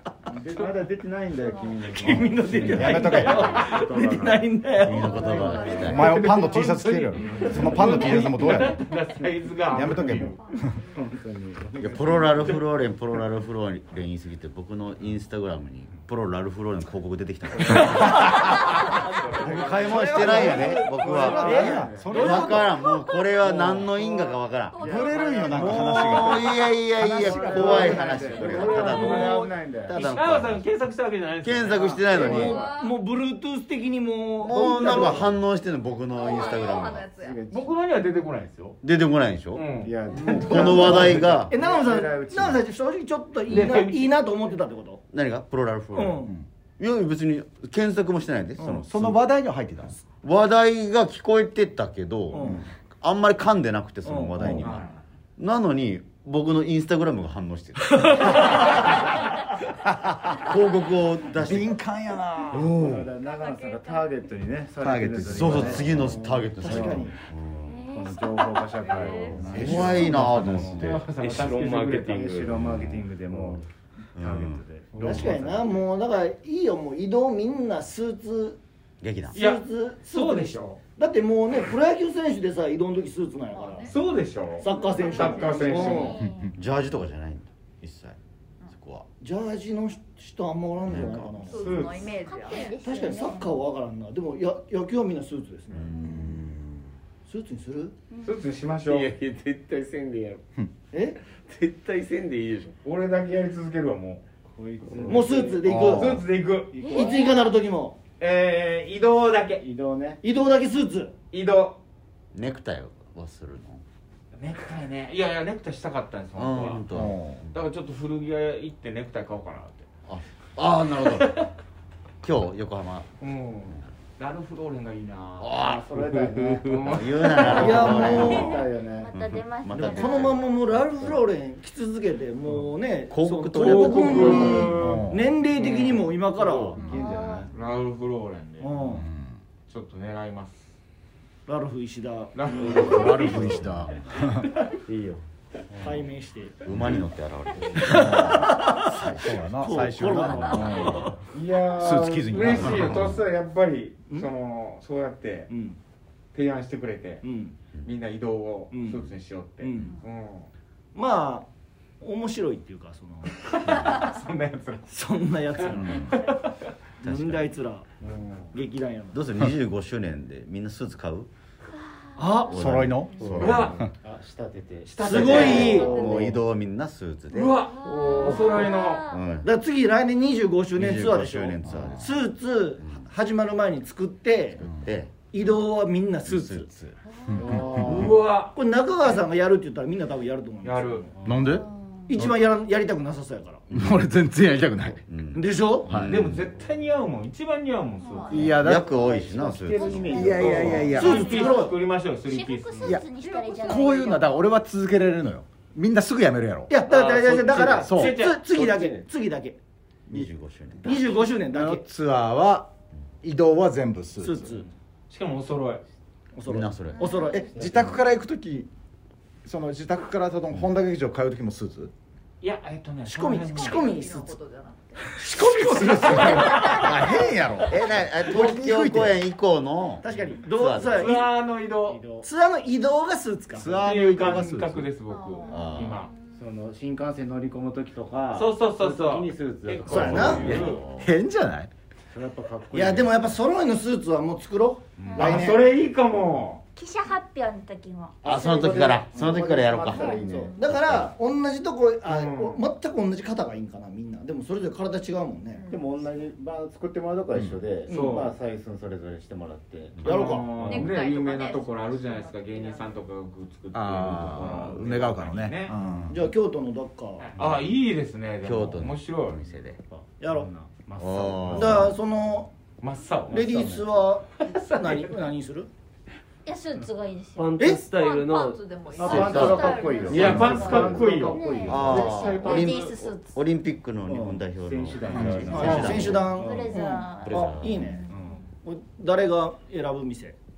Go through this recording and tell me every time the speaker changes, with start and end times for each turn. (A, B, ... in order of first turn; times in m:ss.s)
0:00.3-0:06.1 A
0:01.3-0:01.9 B
0:01.9-0:05.3 C
0:02.6-0:03.4 D
0:02.7-0:03.6 E
0:04.8-0:06.3 F
0:05.3-0:07.6 B
0:05.6-0:10.4 E
0:05.8-0:08.8 D
0:07.2-0:08.7 A
0:09.2-0:10.2 A
0:09.7-0:10.7 D
0:10.2-0:10.9 B
0:10.9-0:12.7 A
0:11.8-0:18.7 F
0:19.3-0:22.7 A
0:19.4-0:30.6 F
0:19.5-0:20.9 D
0:21.2-0:21.9 C
0:21.5-0:22.7 D
0:22.0-0:22.4 E
0:23.4-0:30.0 A
0:24.6-0:26.5 B
0:24.8-0:27.3 D
0:27.4-0:32.4 E
0:31.4-0:32.6 F
0:32.0-0:33.0 B
0:32.1-0:32.6 A
0:32.1-0:35.4 C
0:34.4-0:37.1 F
0:36.1-0:37.4 B
0:36.4-0:37.7 A
0:37.5-0:38.8 E
0:38.8-0:41.5 F
0:39.5-0:41.0 E
0:39.8-0:42.6 A
0:40.3-0:45.0 C
0:43.5-0:44.2 E
0:45.1-0:49.3 F
0:45.9-0:46.4 C
0:48.6-0:48.8 C
0:48.8-0:50.0 D
0:50.2-0:58.9 F
0:52.3-0:52.6 C
0:54.0-0:54.7 C
0:54.4-0:54.6 D
0:54.6-0:55.0 E
1:00.2-1:01.8 F
1:01.4-1:02.9 D
1:02.5-1:07.1 A
1:02.5-1:03.1 F
1:03.1-1:04.2 B
1:04.8-1:06.0 D
1:05.2-1:07.9 F
1:06.6-1:07.1 C
1:07.6-1:08.6 G
1:07.9-1:11.1 A
1:08.2-1:09.6 B
1:09.4-1:10.8 D
1:09.4-1:11.1 F
1:09.6-1:09.9 E
1:10.7-1:12.2 E
1:11.2-1:12.6 H
1:12.1-1:15.8 A
1:12.5-1:13.1 F
1:14.1-1:14.6 F
1:14.9-1:15.3 E
1:15.0-1:18.6 C
1:19.0-1:19.4 F
1:19.3-1:24.0 C
1:19.3-1:20.8 E
1:23.5-1:26.2 B
1:23.9-1:26.3 E
1:24.6-1:26.2 C
1:24.7-1:26.5 G
1:26.4-1:28.2 F
1:28.7-1:29.1 F
1:29.2-1:31.9 C
1:30.8-1:31.6 F
1:31.4-1:32.8 B
1:31.5-1:32.1 E
1:32.2-1:33.6 G
1:32.8-1:35.9 C
1:35.7-1:36.9 F
1:35.9-1:36.4 G
1:36.0-1:36.4 D
1:37.2-1:37.9 C
1:38.1-1:38.4 G
1:38.2-1:39.1 E
1:38.8-1:40.4 H
1:40.9-1:41.2 C
1:41.4-1:42.8 H
1:42.8-1:44.2 E
1:44.5-1:47.4 A
1:44.9-1:45.4 H
1:45.1-1:46.2 C
1:45.6-1:46.2 F
1:45.8-1:46.9 E
1:46.8-1:47.5 G
1:46.8-1:48.0 C
1:48.2-1:49.6 E
1:49.6-1:50.2 A
1:50.2-1:51.1 C
1:51.3-1:51.8 E
1:52.3-1:53.8 F
1:54.3-1:57.0 E
1:56.3-1:57.4 F
1:56.9-1:57.5 D
1:57.5-1:59.9 E
2:00.1-2:01.4 F
2:01.0-2:01.5 E
2:02.2-2:03.1 F
2:03.2-2:05.6 E
2:05.4-2:05.9 F
2:05.6-2:09.1 A
2:05.9-2:07.4 H
2:06.7-2:07.8 E
2:06.8-2:10.5 F
2:07.4-2:08.6 C
2:07.9-2:10.5 G
2:09.7-2:16.8 C
2:10.7-2:11.2 A
2:13.1-2:14.8 F
2:13.5-2:16.2 E
2:14.7-2:15.3 D
2:16.3-2:17.5 A
2:16.8-2:17.5 G
2:17.5-2:18.9 E
2:18.6-2:19.0 C
2:18.9-2:19.4 D
2:19.7-2:20.8 E
2:21.5-2:23.7 C
2:22.3-2:23.6 E
2:22.8-2:24.5 D
2:23.4-2:24.0 F
2:24.9-2:25.2 H
2:25.7-2:26.1 A
2:25.8-2:26.6 C
2:26.6-2:31.1 F
2:27.9-2:28.3 D
2:27.9-2:31.2 C
2:29.2-2:31.1 D
2:31.3-2:35.5 E
2:31.7-2:33.2 D
2:32.4-2:33.2 F
2:35.5-2:35.8 C
2:36.3-2:37.2 E
2:37.2-2:37.5 C
2:37.8-2:40.5 E
2:38.7-2:39.1 C
2:39.6-2:40.0 C
2:40.9-2:41.5 C
2:42.0-2:43.3 C
2:43.4-2:44.9 E
2:44.9-2:46.2 C
2:45.5-2:46.7 E
2:45.8-2:46.1 D
2:47.0-2:47.5 F
2:47.0-2:47.9 C
2:48.0-2:48.5 E
2:48.5-2:49.3 C
2:49.1-2:51.3 F
2:52.2-2:52.6 C
2:52.2-2:52.5 G
2:52.5-2:53.8 F
2:52.5-2:53.9 D
2:53.2-2:56.4 A
2:53.3-2:53.8 E
2:54.8-2:55.9 E
2:55.0-2:56.0 C
2:55.1-2:57.7 F
2:57.3-2:59.1 E
2:57.8-2:59.2 G
2:57.8-2:58.7 A
2:59.0-2:59.5 F
2:59.4-3:04.6 C
3:00.7-3:02.2 F
3:04.6-3:05.1 F
3:05.3-3:06.7 C
3:06.2-3:07.0 F
3:07.1-3:07.8 G
3:07.3-3:08.1 D
3:07.4-3:08.2 A
3:07.6-3:08.6 E
3:08.5-3:11.1 C
3:10.6-3:11.1 E
3:11.2-3:12.3 D
3:11.5-3:12.2 G
3:12.1-3:13.6 C
3:13.7-3:15.0 D
3:15.1-3:16.4 F
3:15.3-3:15.9 C
3:15.9-3:16.2 D
3:16.1-3:18.4 E
3:18.0-3:18.5 B
3:18.3-3:18.9 D
3:18.3-3:21.0 F
3:18.3-3:21.0 A
3:19.7-3:21.7 G
3:20.1-3:21.4 D
3:20.9-3:23.0 E
3:20.9-3:21.8 C
3:22.2-3:24.4 G
3:22.8-3:26.7 D
3:23.1-3:24.3 B
3:26.7-3:29.6 C
3:26.8-3:29.0 H
3:27.5-3:28.4 E
3:27.8-3:28.2 D
3:30.1-3:31.2 F
3:30.8-3:31.8 C
3:31.4-3:32.7 D
3:33.2-3:34.6 D
3:34.2-3:34.7 C
3:35.1-3:35.8 E
3:36.3-3:37.6 C
3:36.4-3:38.0 F
3:37.3-3:38.7 D
3:39.4-3:41.9 D
3:42.4-3:43.9 E
3:43.1-3:44.4 C
3:43.4-3:45.2 B
3:45.0-3:49.2 D
3:45.3-3:47.0 E
3:45.8-3:46.4 C
3:46.2-3:46.9 B
3:47.6-3:51.2 F
3:50.0-3:51.3 C
3:50.8-3:52.0 E
3:51.8-3:52.3 A
3:52.2-3:54.1 C
3:53.5-3:54.9 D
3:53.8-3:56.2 E
3:55.1-3:56.0 B
3:55.4-3:56.4 G
3:55.4-3:56.0 F
3:56.3-4:00.8 A
3:58.3-4:00.8 E
3:59.8-4:00.6 C
4:00.2-4:01.1 F
4:00.9-4:01.7 D
4:02.1-4:03.3 A
4:02.7-4:05.7 C
4:05.0-4:06.6 E
4:05.1-4:05.4 G
4:06.7-4:08.8 G
4:08.2-4:10.6 A
4:08.2-4:11.1 F
4:10.5-4:15.7 C
4:12.0-4:12.6 E
4:15.5-4:16.0 B
4:15.7-4:20.9 A
4:17.3-4:17.6 D
4:17.9-4:18.3 C
4:17.9-4:18.4 E
4:20.0-4:26.0 E
4:20.0-4:20.5 C
4:20.6-4:23.0 B
4:23.7-4:26.3 D
4:26.1-4:27.3 C
4:27.2-4:29.4 E
4:28.4-4:29.8 F
4:29.9-4:32.0 A
4:30.2-4:30.5 C
4:31.0-4:31.9 F
4:31.5-4:32.5 C
4:32.8-4:33.7 E
4:33.3-4:35.7 C
4:33.3-4:33.8 A
4:36.4-4:37.6 G
4:37.4-4:39.4 H
4:37.6-4:37.8 C
4:37.8-4:41.2 B
4:38.9-4:42.4 A
4:39.0-4:39.8 F
4:39.4-4:40.3 G
4:40.0-4:43.0 E
4:41.1-4:43.4 G
4:41.6-4:46.3 F
4:44.1-4:47.4 A
4:45.2-4:46.1 E
4:45.2-4:48.1 C
4:46.3-4:48.4 G
4:47.2-4:47.9 F
4:48.0-4:48.4 A
4:48.6-4:50.4 C